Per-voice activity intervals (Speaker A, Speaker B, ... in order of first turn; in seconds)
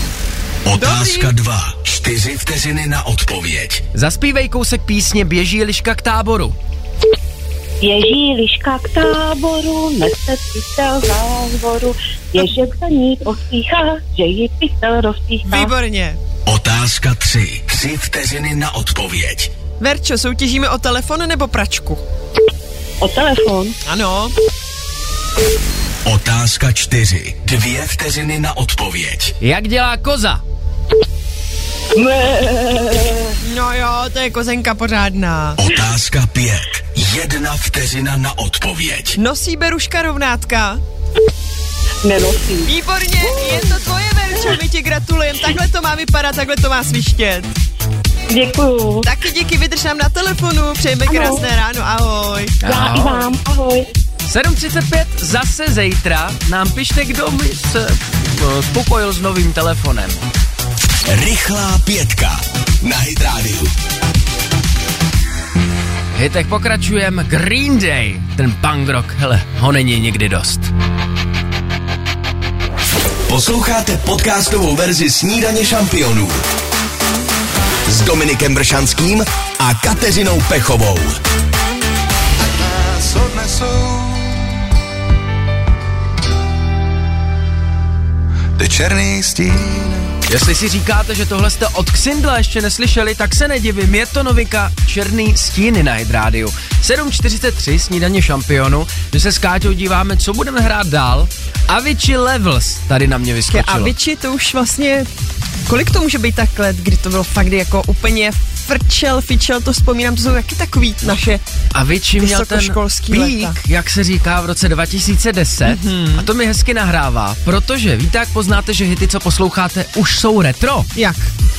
Speaker A: 0.6-3.8, 16.4-19.5, 26.0-29.3, 35.6-39.2, 61.0-63.7, 73.3-76.4, 77.9-81.2
Speaker B: 0.8-1.3, 15.4-16.2, 19.8-22.0, 23.9-24.3, 33.4-35.6, 39.2-40.8, 42.6-47.5, 49.0-52.5, 103.5-105.1, 105.7-111.4, 112.2-113.6, 115.6-116.3, 120.9-121.3
Speaker C: 3.9-6.5, 29.4-30.4, 52.6-53.3, 54.2-60.2, 66.1-70.7, 90.3-103.9, 111.7-120.9
Speaker D: 7.8-15.7, 23.0-23.7, 32.0-33.1, 42.0-42.7, 43.2-43.8, 48.3-49.1, 51.1-51.4, 52.6-53.9
Speaker E: 82.4-84.5, 88.6-90.1